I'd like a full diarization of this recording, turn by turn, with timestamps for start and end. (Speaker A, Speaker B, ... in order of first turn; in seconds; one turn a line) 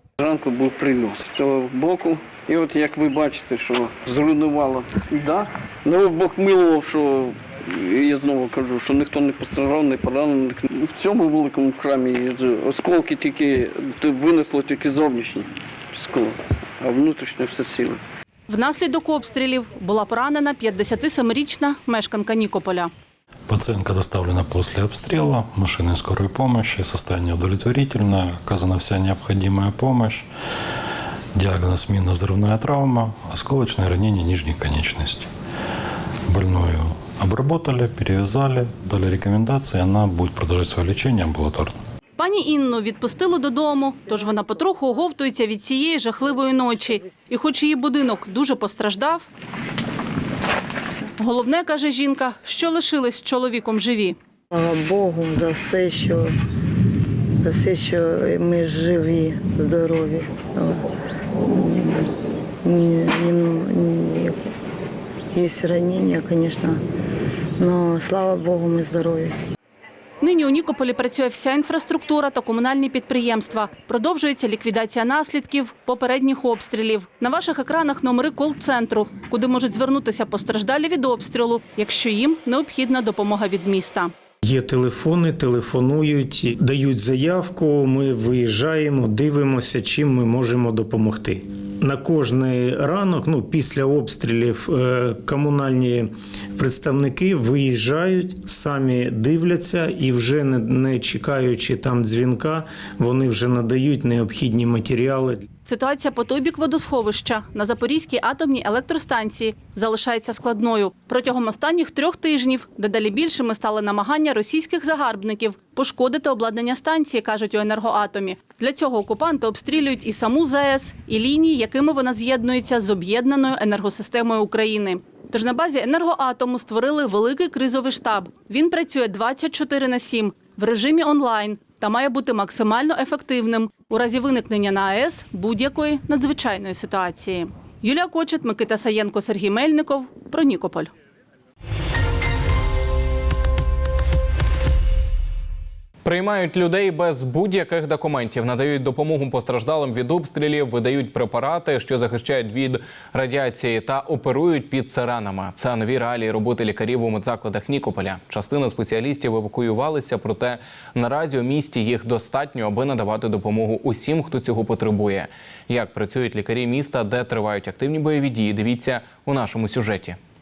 Speaker A: 0.2-18.0
Speaker B: 18.5-22.9
Speaker C: 23.5-30.2
Speaker C: 31.3-35.3
Speaker C: 36.3-41.7
Speaker B: 42.2-49.2
Speaker B: 51.2-54.2
Speaker D: 54.5-56.3
Speaker D: 57.4-60.8
Speaker D: 61.5-62.0
Speaker D: 62.7-64.5
Speaker D: 65.3-66.8
Speaker D: 67.6-69.3
Speaker B: 70.2-84.1
Speaker E: 84.4-105.5
Speaker B: 105.6-140.9
Speaker F: 146.0-170.2